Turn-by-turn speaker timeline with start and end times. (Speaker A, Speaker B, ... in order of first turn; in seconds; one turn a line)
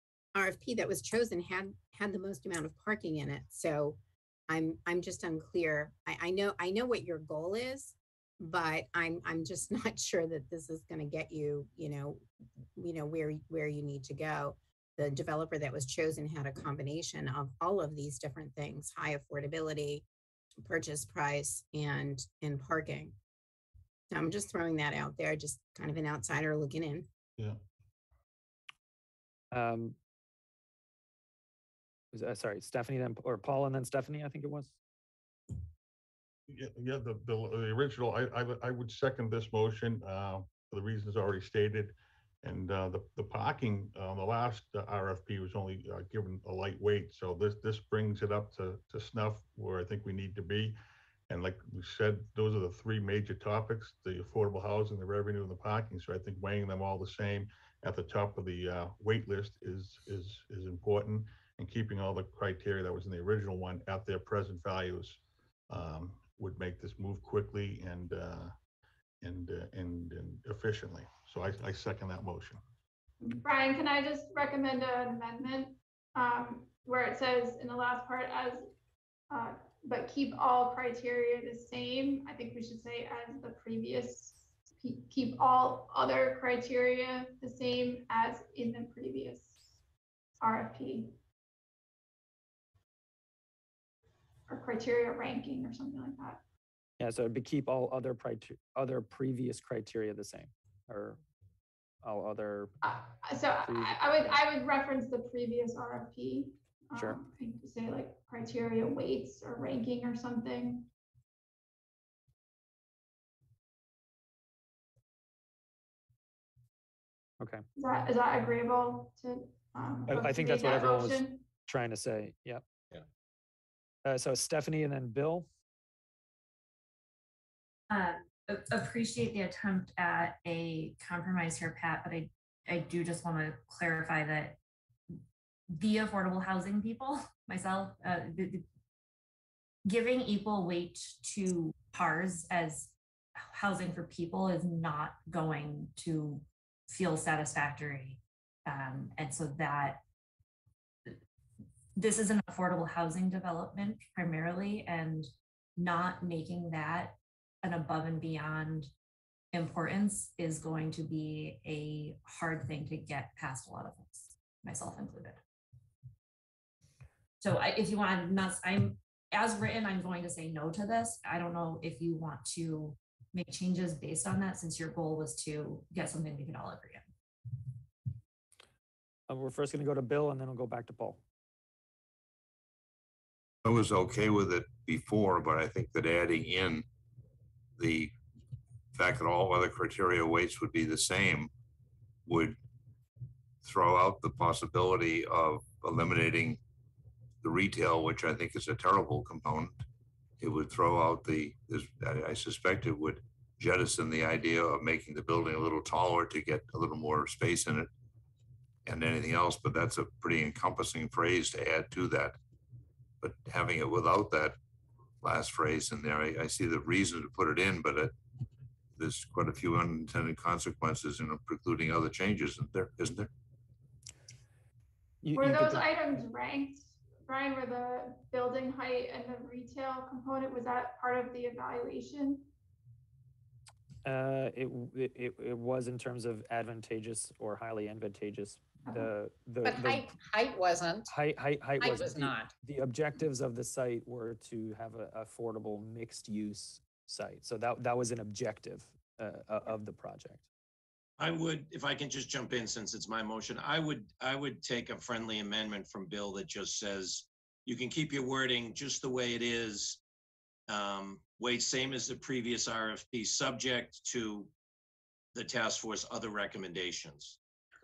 Speaker A: 0.3-20.1
Speaker A: 20.6-23.2
Speaker A: 24.1-27.1
Speaker B: 29.5-30.0
Speaker B: 32.1-34.8
Speaker C: 36.5-50.8
Speaker C: 51.3-68.5
Speaker C: 69.2-72.6
Speaker D: 73.2-78.7
Speaker D: 79.3-89.6
Speaker D: 90.4-91.2
Speaker D: 94.5-96.4
Speaker B: 97.0-101.2
Speaker B: 102.0-102.8
Speaker D: 102.8-110.9
Speaker B: 103.6-104.4
Speaker B: 106.9-107.2
Speaker B: 117.4-117.7
Speaker D: 117.8-121.5
Speaker B: 120.1-122.6
Speaker B: 124.0-125.5
Speaker E: 127.9-134.6
Speaker E: 135.7-138.7
Speaker E: 139.8-150.0
Speaker E: 152.0-158.9
Speaker E: 159.5-165.4
Speaker E: 167.4-177.1
Speaker B: 179.3-181.2
Speaker F: 183.7-186.9
Speaker F: 187.8-188.1
Speaker F: 188.9-191.5
Speaker F: 192.3-192.6
Speaker F: 193.6-196.6
Speaker F: 197.4-199.8
Speaker F: 200.4-207.9
Speaker F: 208.8-212.4
Speaker F: 213.2-214.6
Speaker F: 215.2-218.1
Speaker F: 219.0-223.3
Speaker B: 225.2-225.9
Speaker D: 225.3-232.5
Speaker B: 234.1-240.1
Speaker D: 238.9-239.1
Speaker G: 239.6-241.1
Speaker B: 241.1-250.5
Speaker G: 241.8-242.5
Speaker H: 251.2-260.0
Speaker H: 260.7-264.5
Speaker H: 265.4-267.4